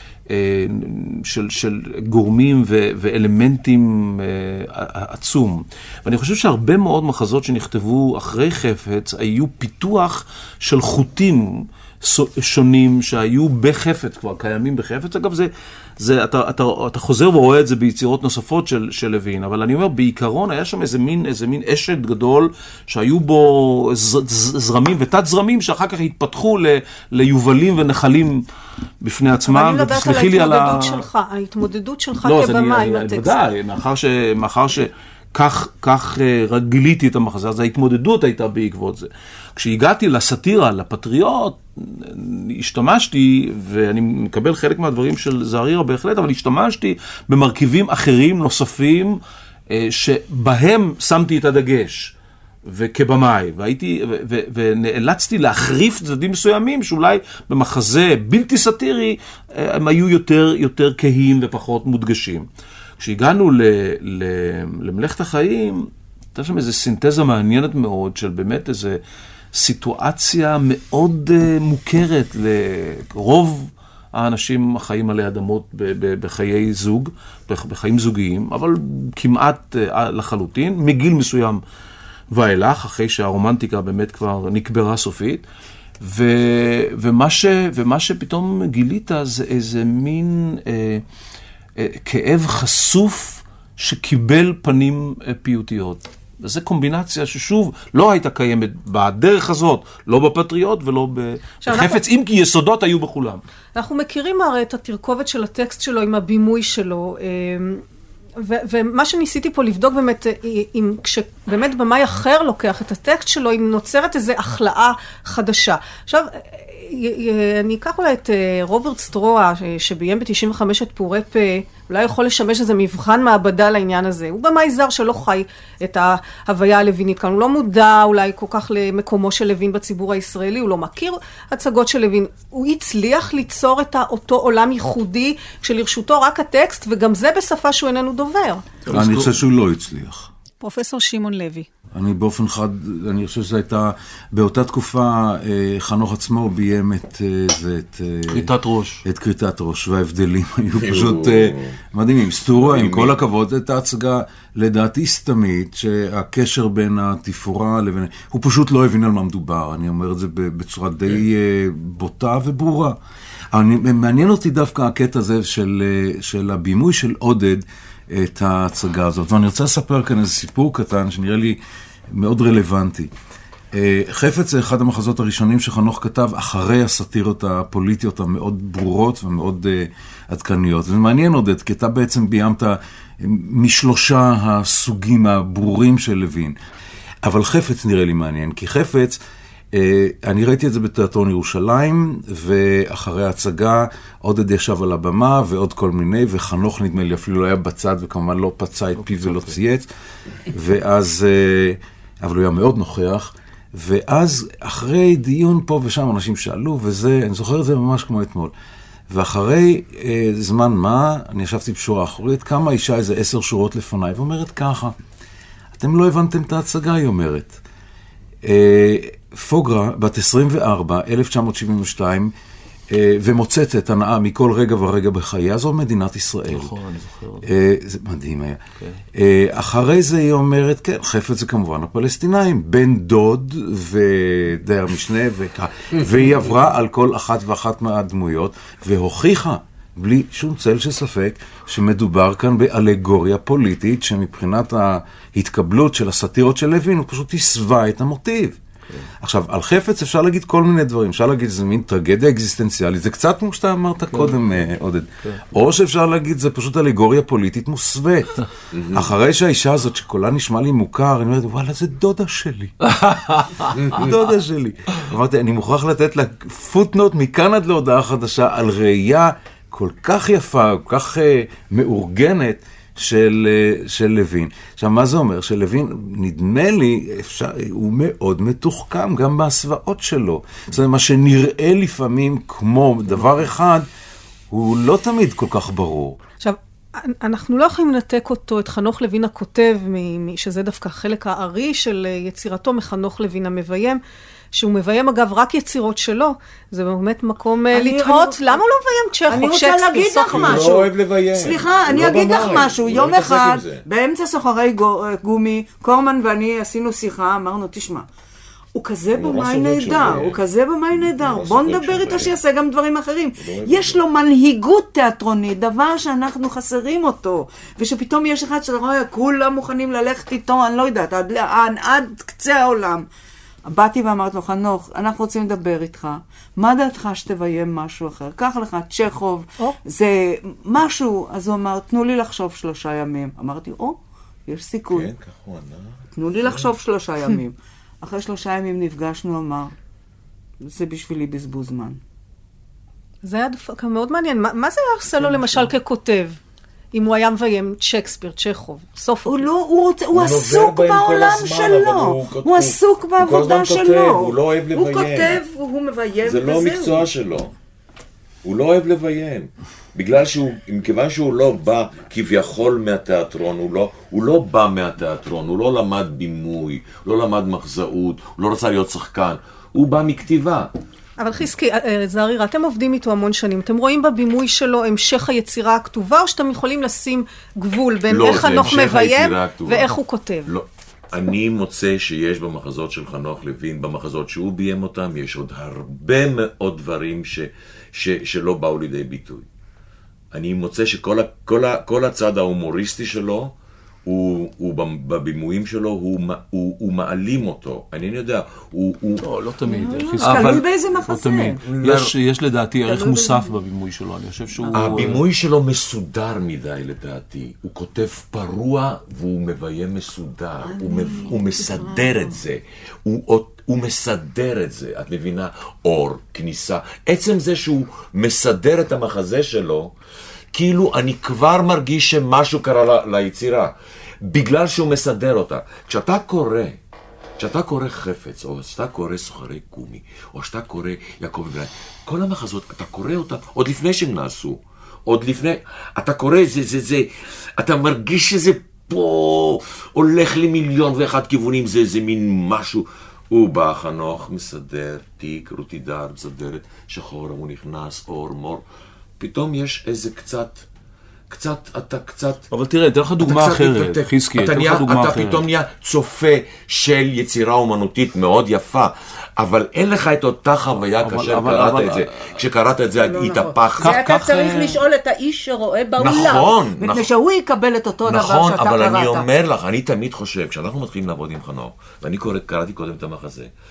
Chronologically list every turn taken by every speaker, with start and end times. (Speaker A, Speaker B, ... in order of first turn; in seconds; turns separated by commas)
Speaker A: 0.3-28.4, Speaker A: 29.0-31.0, Speaker B: 29.4-33.4, Speaker A: 32.2-49.2, Speaker A: 49.7-52.1, Speaker A: 52.7-62.5, Speaker A: 63.0-69.0, Speaker A: 69.5-81.6, Speaker A: 82.3-85.4, Speaker A: 86.0-91.0, Speaker A: 91.8-103.4, Speaker B: 101.6-102.0, Speaker B: 103.7-107.8, Speaker B: 108.4-138.6, Speaker A: 138.9-139.3, Speaker C: 138.9-140.3, Speaker B: 140.6-141.7, Speaker C: 141.9-148.5, Speaker A: 148.3-149.0, Speaker C: 149.0-163.0, Speaker D: 150.8-151.7, Speaker D: 152.5-153.2, Speaker C: 163.5-171.6, Speaker C: 172.1-173.1, Speaker C: 173.7-186.6, Speaker C: 187.2-189.2, Speaker C: 189.7-199.9, Speaker A: 199.0-199.5, Speaker C: 200.5-208.5, Speaker C: 209.1-214.9, Speaker C: 215.7-217.6, Speaker C: 218.4-222.3, Speaker C: 222.9-226.7, Speaker A: 226.5-227.5, Speaker C: 227.4-228.6, Speaker C: 229.1-248.6, Speaker C: 249.2-262.9, Speaker A: 254.1-254.4, Speaker D: 258.7-259.1, Speaker A: 262.9-263.7, Speaker D: 263.8-264.1, Speaker C: 263.9-283.9, Speaker C: 284.5-286.2, Speaker B: 286.4-294.0, Speaker B: 294.5-300.8, Speaker E: 297.7-298.6, Speaker E: 299.3-308.1, Speaker D: 300.2-303.9, Speaker E: 308.7-323.1, Speaker D: 309.1-312.4, Speaker D: 313.4-314.0, Speaker E: 323.7-335.1, Speaker D: 334.9-336.7, Speaker E: 336.1-339.7, Speaker E: 340.6-342.0, Speaker B: 343.2-346.4, Speaker E: 345.2-345.7, Speaker B: 346.9-349.5, Speaker E: 349.2-357.1, Speaker D: 350.1-355.4, Speaker D: 356.2-357.5, Speaker D: 358.4-370.7, Speaker B: 371.2-380.5, Speaker D: 378.1-389.5, Speaker D: 390.3-393.5, Speaker D: 394.1-399.2, Speaker A: 399.2-405.2, Speaker E: 399.6-401.6, Speaker D: 401.6-402.1, Speaker E: 402.8-403.5, Speaker E: 404.6-405.2, Speaker D: 404.7-419.9, Speaker E: 410.6-412.4, Speaker D: 420.5-423.7, Speaker D: 424.3-426.8, Speaker D: 427.4-437.1, Speaker D: 437.6-448.6, Speaker D: 449.2-450.6, Speaker D: 451.3-452.4, Speaker A: 452.5-455.5, Speaker D: 453.2-464.5, Speaker A: 461.0-462.3, Speaker E: 463.0-469.3, Speaker A: 463.8-464.8, Speaker D: 466.0-467.1, Speaker D: 468.1-473.5